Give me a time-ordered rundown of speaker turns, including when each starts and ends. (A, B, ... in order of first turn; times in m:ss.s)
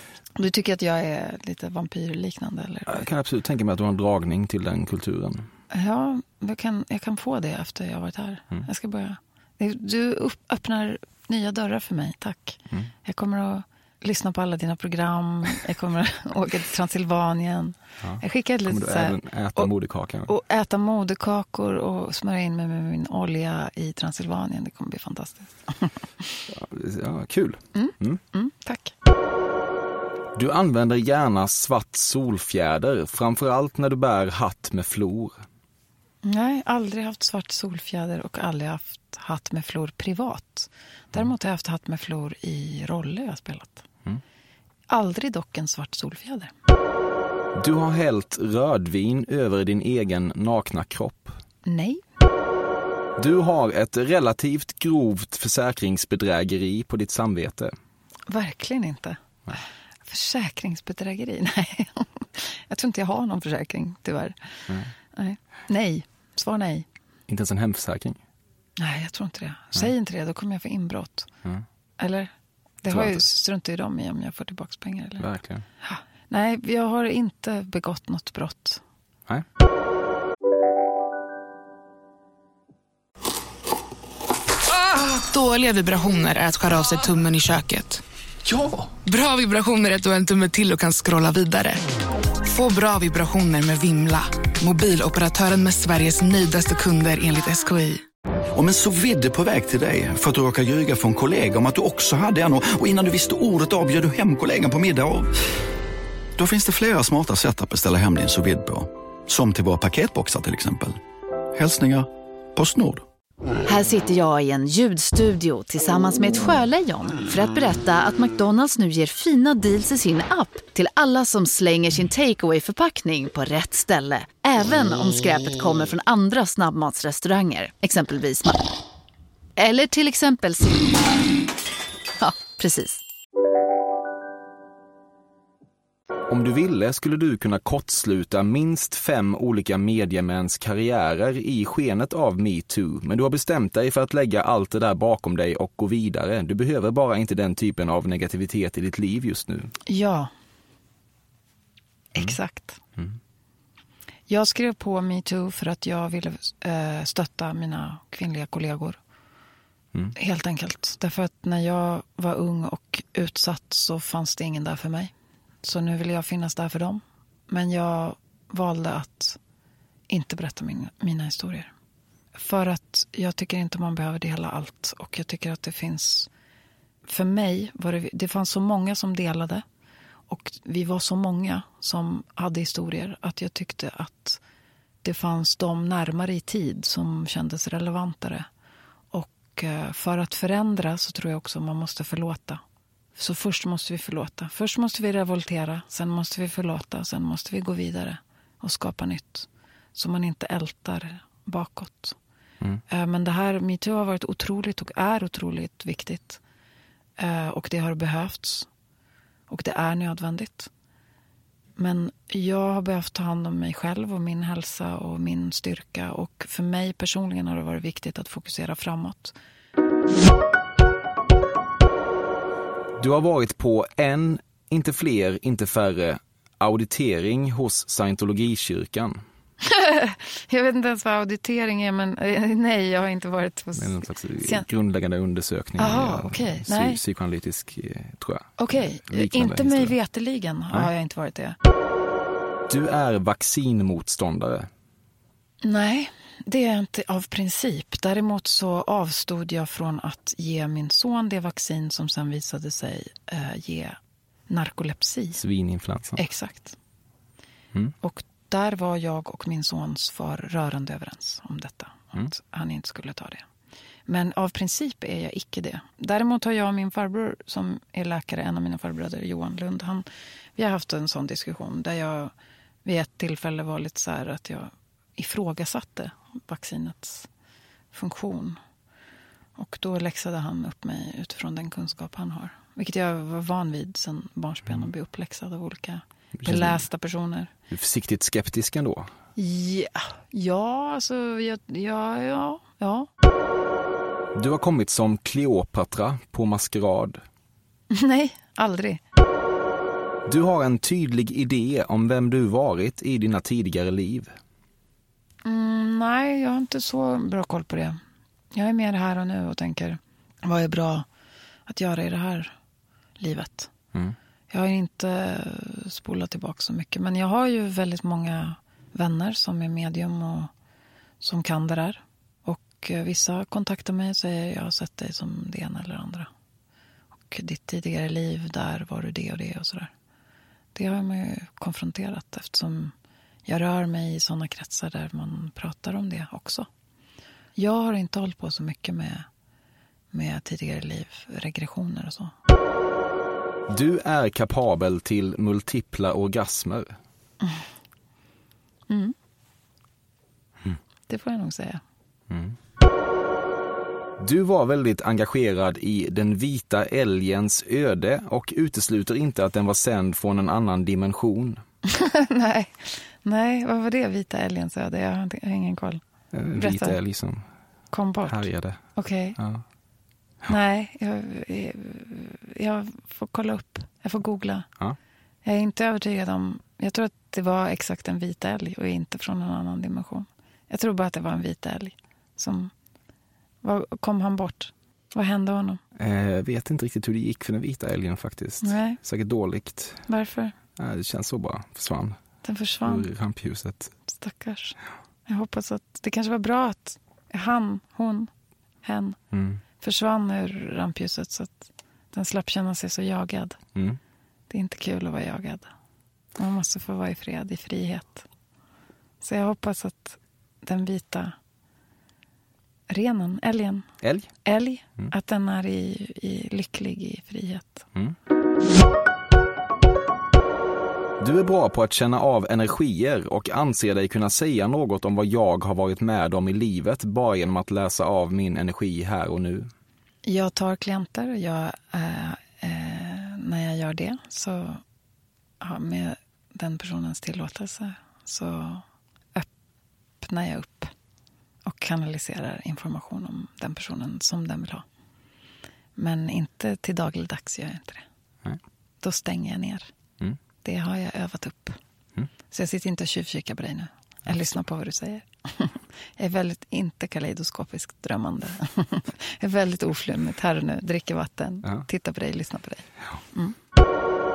0:00.4-0:03.1 A
0:02.9-0:05.5 B
0:05.7-0:19.7 A
0:18.0-0:20.3 B
0:20.3-0:25.9 A
0:26.5-0:28.2 B
0:27.8-0:28.9 A
0:30.4-0:35.4 B
0:36.2-0:43.8 A
0:44.9-0:46.5 A
0:47.6-0:51.4 B
0:51.7-0:52.0 A
0:53.2-0:57.7 B
0:58.3-0:59.2 A
1:00.0-1:04.6 A
1:05.1-1:06.9 A
1:07.3-1:08.2 B
1:08.8-1:11.3 A
1:12.0-1:12.3 A
1:12.8-1:15.2 A
1:12.9-1:13.2 B
1:15.2-1:15.7 B
1:15.8-1:18.8 A
1:24.7-1:28.0 C
1:29.0-1:31.8 C
1:32.4-1:38.0 C
1:38.5-1:45.3 D
1:46.4-1:51.0 D
1:51.5-1:53.0 D
1:53.6-2:08.6 E
2:09.6-2:11.0 E
2:12.2-2:13.0 E
2:16.3-2:29.7 B
2:29.9-2:30.3 A
2:32.1-2:32.8 A
2:34.3-2:39.0 A
2:40.2-2:49.4 A
2:50.1-2:51.7 A
2:52.4-2:56.3 A
2:57.1-2:59.6 A
3:00.3-3:04.4 A
3:05.0-3:08.5 A
3:09.1-3:12.6 A
3:13.2-3:22.2 A
3:22.9-3:26.4 A
3:27.2-3:28.7 A
3:29.5-3:30.7 A
3:31.8-3:39.4 A
3:43.0-3:49.2 B
3:49.6-3:54.7 A
3:53.8-4:00.0 B
3:55.8-3:57.0 A
3:58.6-4:01.6 A
4:02.7-4:04.7 B
4:05.6-4:14.0 A
4:14.5-4:15.4 A
4:15.4-4:16.2 B
4:16.2-4:16.8 A
4:18.0-4:23.5 A
4:24.1-4:32.3 A
4:32.8-4:37.3 A
4:37.9-4:38.6 A
4:39.6-4:47.5 A
4:46.4-4:46.8 B
4:47.7-4:49.1 B
4:49.4-4:53.1 A
4:54.4-4:57.2 B
4:57.9-4:59.0 A
5:00.3-5:04.3 B
5:05.4-5:08.0 A
5:08.5-5:11.1 A
5:11.7-5:12.5 A
5:13.2-5:13.7 A
5:14.5-5:20.5 A
5:21.2-5:26.3 A
5:27.3-5:29.9 A
5:30.8-5:32.9 A
5:33.5-5:36.7 A
5:37.6-5:39.3 A
5:40.1-5:42.3 A
5:43.7-5:46.9 B
5:48.9-5:49.2 A
5:51.1-5:51.8 A
5:52.3-5:52.6 B
5:54.2-6:01.6 B
6:01.9-6:06.0 A
6:06.3-6:07.5 B
6:06.6-6:07.0 A
6:07.9-6:09.4 A
6:08.3-6:08.8 B
6:09.4-6:09.6 B
6:10.5-6:14.7 A
6:15.4-6:22.7 A
6:23.6-6:25.8 A
6:26.0-6:30.1 B
6:28.6-6:29.0 A
6:30.1-6:30.5 A
6:30.8-6:32.2 B
6:32.4-6:33.1 A
6:32.8-6:33.9 B
6:34.1-6:38.3 A
6:38.8-6:39.2 A
6:39.3-6:39.6 B
6:39.8-6:43.6 A
6:44.5-6:45.7 A
6:46.4-6:48.2 A
6:49.2-6:51.4 A
6:52.9-6:53.9 A
6:54.0-6:54.3 B
6:54.5-6:57.8 A
7:01.2-7:09.7 B
7:10.2-7:14.8 A
7:15.6-7:18.8 A
7:20.2-7:20.9 A
7:21.6-7:24.8 A
7:26.0-7:28.0 A
7:29.0-7:29.9 A
7:30.6-7:31.8 A
7:32.5-7:43.6 A